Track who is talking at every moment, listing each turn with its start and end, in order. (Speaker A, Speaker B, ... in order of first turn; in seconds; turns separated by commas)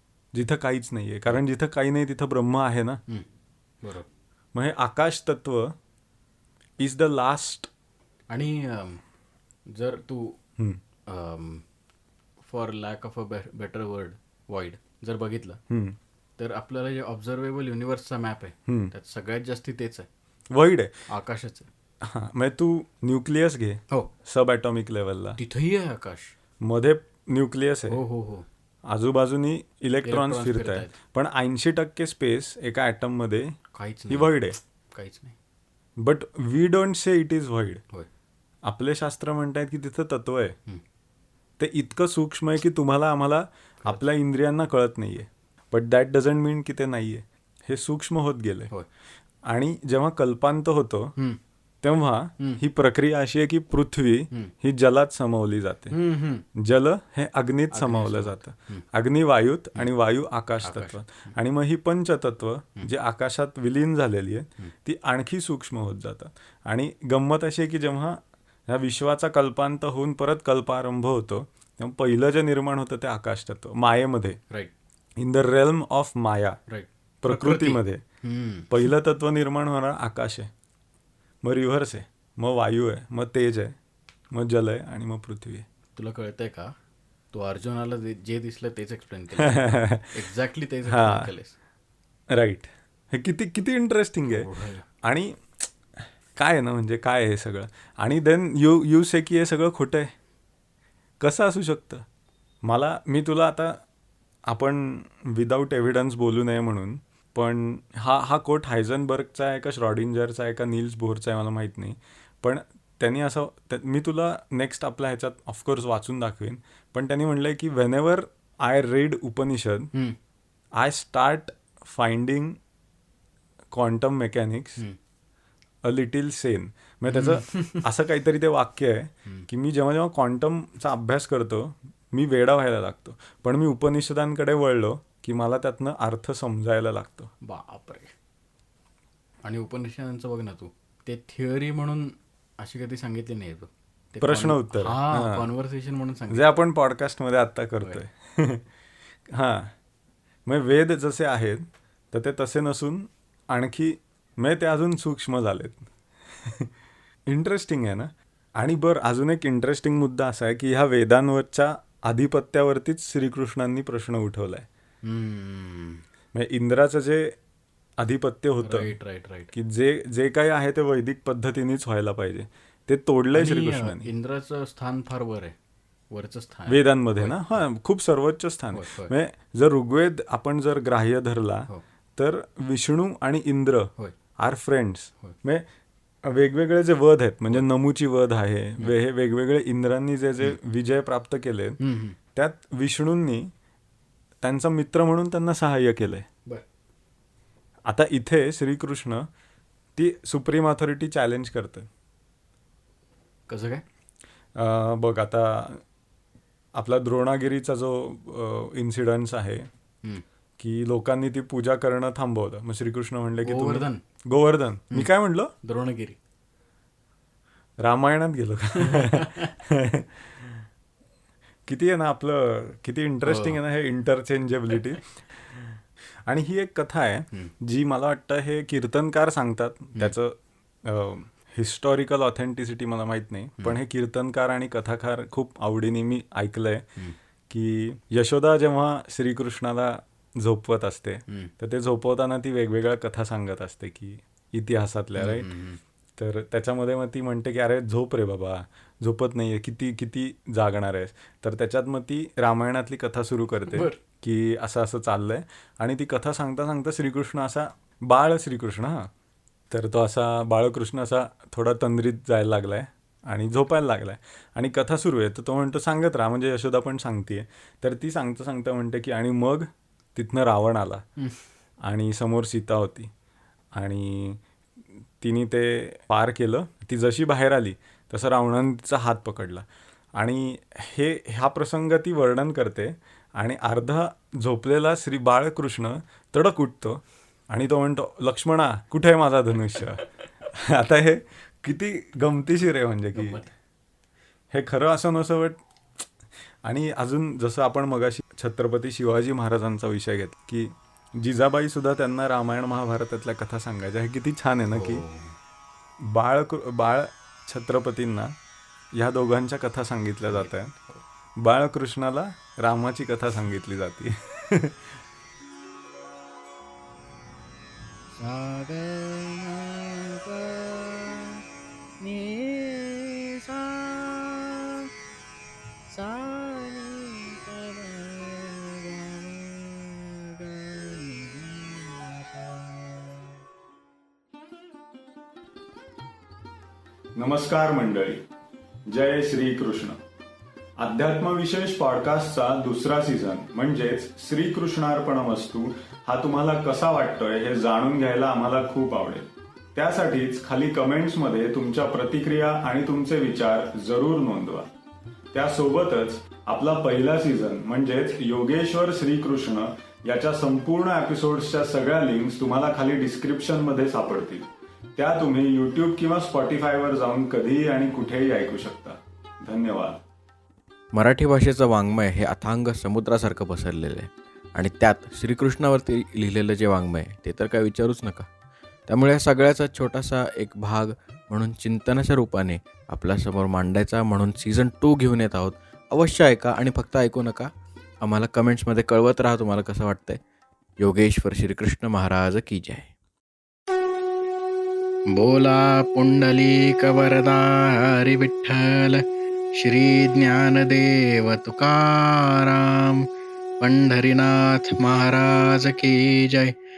Speaker A: 0.3-3.0, Speaker A: 4.5-5.7, Speaker A: 6.8-7.7, Speaker B: 8.3-9.0, Speaker B: 9.7-10.4, Speaker B: 11.1-11.6, Speaker B: 12.4-15.6, Speaker A: 15.7-16.0, Speaker B: 16.4-20.1, Speaker A: 18.7-18.9, Speaker A: 20.5-21.0, Speaker B: 21.1-21.7, Speaker A: 22.0-25.4, Speaker B: 25.4-26.4, Speaker A: 26.6-28.0, Speaker B: 27.9-28.5, Speaker A: 28.9-33.6, Speaker B: 30.0-30.9, Speaker B: 33.7-34.4, Speaker A: 34.1-34.6, Speaker B: 34.9-35.4, Speaker A: 36.0-37.8, Speaker A: 38.7-40.6, Speaker A: 41.6-48.7, Speaker A: 49.5-51.1, Speaker A: 51.8-56.0, Speaker B: 55.9-56.5, Speaker A: 56.6-74.4, Speaker B: 57.7-58.9, Speaker B: 60.6-61.3, Speaker A: 75.2-76.6, Speaker B: 76.7-78.7, Speaker A: 77.2-78.0, Speaker A: 78.7-80.5, Speaker A: 81.4-83.8, Speaker A: 84.3-85.7, Speaker B: 86.0-86.7, Speaker B: 87.3-91.6, Speaker A: 89.4-90.1, Speaker A: 90.9-91.3, Speaker A: 92.3-94.5, Speaker B: 94.2-94.8, Speaker A: 95.0-95.7, Speaker A: 96.4-100.1, Speaker A: 101.2-102.0, Speaker A: 102.7-103.8, Speaker A: 104.5-119.9, Speaker A: 120.8-122.6, Speaker A: 123.7-124.8, Speaker A: 125.8-137.3, Speaker B: 127.1-127.9, Speaker B: 137.4-138.1, Speaker B: 139.4-146.5, Speaker A: 144.2-145.4, Speaker A: 146.3-148.7, Speaker A: 149.3-149.7, Speaker A: 150.5-155.9, Speaker A: 156.4-156.7, Speaker A: 157.3-164.7, Speaker B: 165.0-166.0, Speaker A: 166.3-167.4, Speaker A: 168.0-168.9, Speaker B: 168.6-169.5, Speaker A: 169.5-174.1, Speaker B: 173.3-175.5, Speaker B: 176.1-177.6, Speaker A: 176.7-185.7, Speaker B: 178.7-179.1, Speaker A: 186.2-191.8, Speaker B: 191.8-192.2, Speaker A: 192.3-193.5, Speaker A: 194.4-196.3, Speaker A: 197.9-199.3, Speaker A: 200.0-201.9, Speaker B: 203.5-203.8, Speaker A: 204.6-205.8, Speaker A: 206.8-209.7, Speaker A: 210.6-215.5, Speaker B: 213.4-214.0, Speaker B: 215.6-216.2, Speaker A: 217.8-220.6, Speaker B: 218.8-219.5, Speaker A: 221.7-236.9, Speaker B: 223.2-223.6, Speaker A: 237.5-245.5, Speaker B: 241.3-241.5, Speaker B: 245.2-245.8, Speaker A: 246.2-259.1, Speaker B: 253.7-254.0, Speaker A: 259.7-271.0, Speaker A: 271.9-273.1, Speaker A: 273.8-274.4, Speaker A: 275.2-279.6, Speaker A: 280.2-293.4, Speaker B: 293.1-293.5, Speaker A: 294.5-296.1, Speaker A: 296.6-305.0, Speaker B: 304.7-305.4, Speaker A: 306.0-308.4, Speaker A: 308.9-310.7, Speaker B: 310.3-311.0, Speaker A: 311.4-315.0, Speaker B: 318.2-321.4, Speaker B: 322.0-324.9, Speaker B: 325.9-333.3, Speaker A: 337.2-338.2, Speaker A: 338.9-340.0, Speaker A: 340.8-354.7, Speaker A: 355.3-370.0, Speaker B: 370.9-378.3, Speaker B: 378.9-387.5, Speaker B: 388.0-390.2, Speaker B: 390.8-392.9, Speaker B: 395.1-403.1, Speaker B: 403.6-406.6